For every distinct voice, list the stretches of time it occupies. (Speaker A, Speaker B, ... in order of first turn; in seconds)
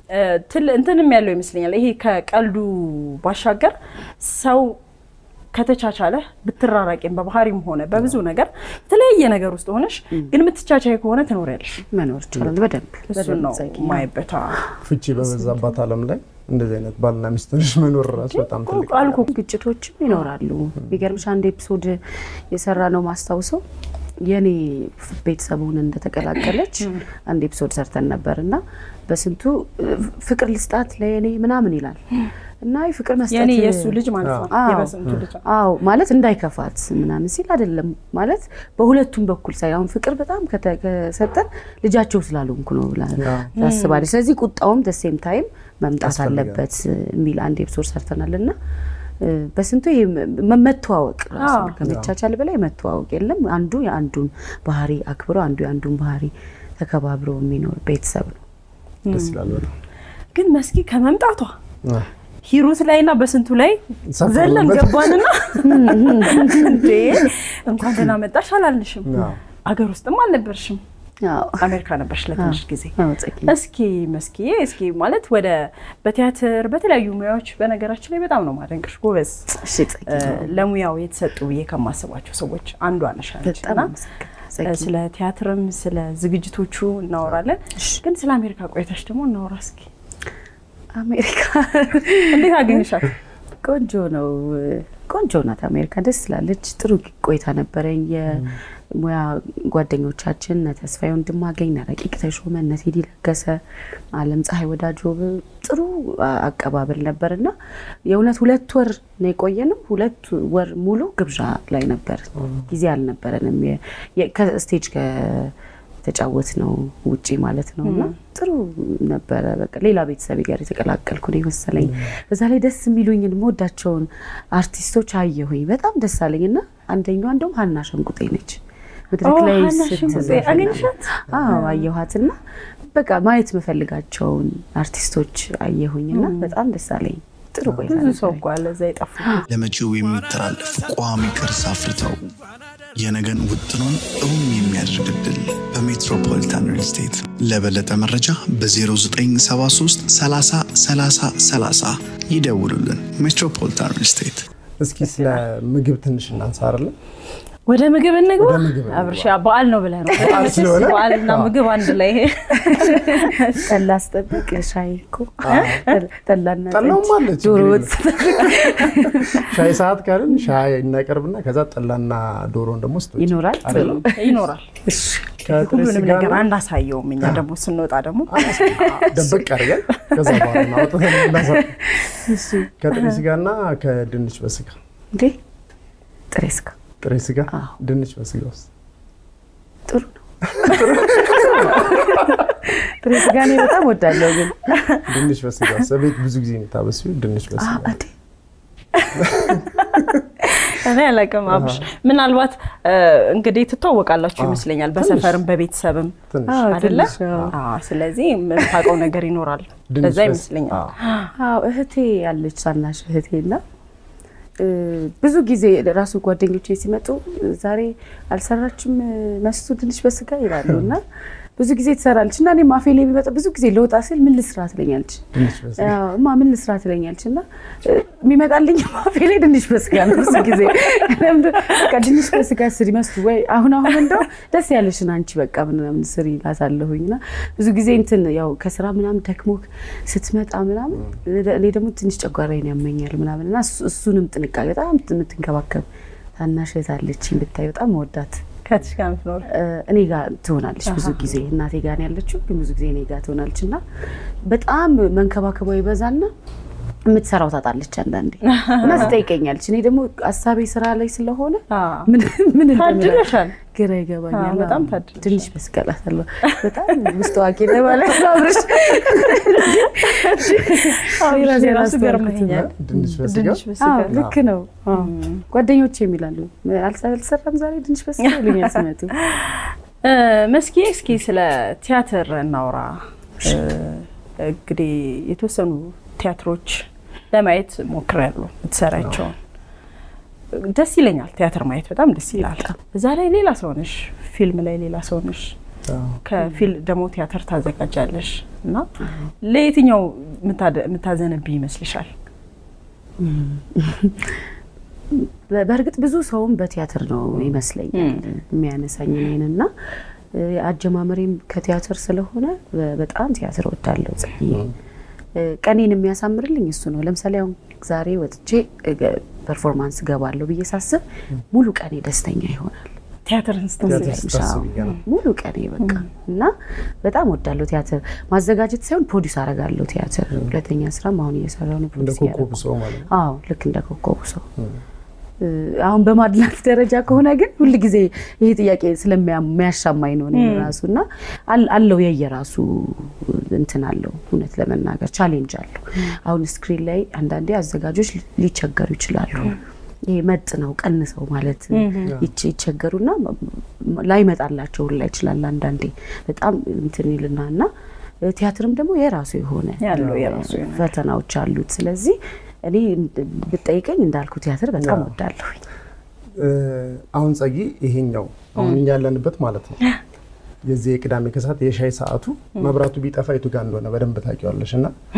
Speaker A: 0.1-4.8, 5.5-11.8, 13.1-14.6, 18.2-19.3, 33.3-35.4, 43.6-44.0, 51.4-51.8, 60.3-61.5, 62.5-70.8, 71.6-79.5, 80.1-83.9, 84.6-89.9, 92.3-93.1, 117.8-118.1, 129.2-131.8, 136.1-136.5, 137.9-139.4, 155.0-155.4, 157.7-163.8, 165.5-165.9, 168.6-168.9, 173.7-174.7, 175.5-181.6, 190.7-192.2, 199.0-206.2, 206.7-211.3, 248.6-249.5, 250.9-251.2, 258.5-259.1, 261.7-262.1, 262.7-263.5, 264.3-265.5, 266.5-267.2, 267.9-274.2, 274.9-275.4, 278.2-278.8, 279.3-289.3, 290.5-295.5, 296.2-298.9, 299.4-302.1, 307.9-308.2, 323.3-324.2, 340.3-340.7, 351.7-352.2, 359.8-360.9
Speaker B: 7.9-8.2, 14.8-19.3, 34.2-34.5, 43.2-43.5, 46.0-46.6, 51.8-52.1, 59.1-59.7, 64.1-65.2, 67.8-68.1, 69.0-69.4, 98.3-98.5, 121.8-122.1, 130.1-131.6, 137.6-138.0, 154.8-156.9, 158.4-159.3, 160.1-161.6, 165.4-165.9, 166.7-174.0, 175.4-176.5, 178.3-181.7, 182.8-184.8, 187.0-188.7, 190.5-192.4, 195.1-197.9, 199.1-200.2, 201.5-201.8, 204.4-205.4, 206.3-207.5, 209.9-210.9, 220.7-220.9, 225.3-226.0, 258.9-259.1, 272.5-274.4, 295.9-296.2, 307.3-307.6, 323.8-325.0, 331.9-333.1, 359.9-360.2, 364.8-365.1, 366.4-369.8, 370.6-374.9
Speaker C: 11.9-14.1, 15.3-15.5, 19.3-23.6, 24.2-32.0, 32.6-48.5, 49.2-58.4, 59.0-59.6, 65.6-67.0, 71.2-71.7, 72.4-73.5, 79.5-80.5, 83.5-84.9, 90.9-92.8, 93.6-103.6, 104.1-107.5, 108.0-115.5, 116.0-128.6, 129.1-132.4, 132.9-138.4, 160.1-161.0, 162.5-169.6, 173.2-175.5, 178.4-179.4, 182.2-182.7, 186.3-186.7, 189.9-194.9, 197.6-198.1, 206.5-207.5, 211.4-213.6, 214.6-221.0, 221.6-245.8, 246.4-248.4, 249.5-253.8, 254.4-256.3, 257.1-273.2, 273.8-279.1, 292.4-292.7, 303.2-304.5, 305.1-309.7, 310.3-314.7, 315.4-322.9, 323.8-334.4, 335.4-349.6, 350.1-357.7, 358.2-365.6
Speaker D: 139.5-142.3, 142.9-154.4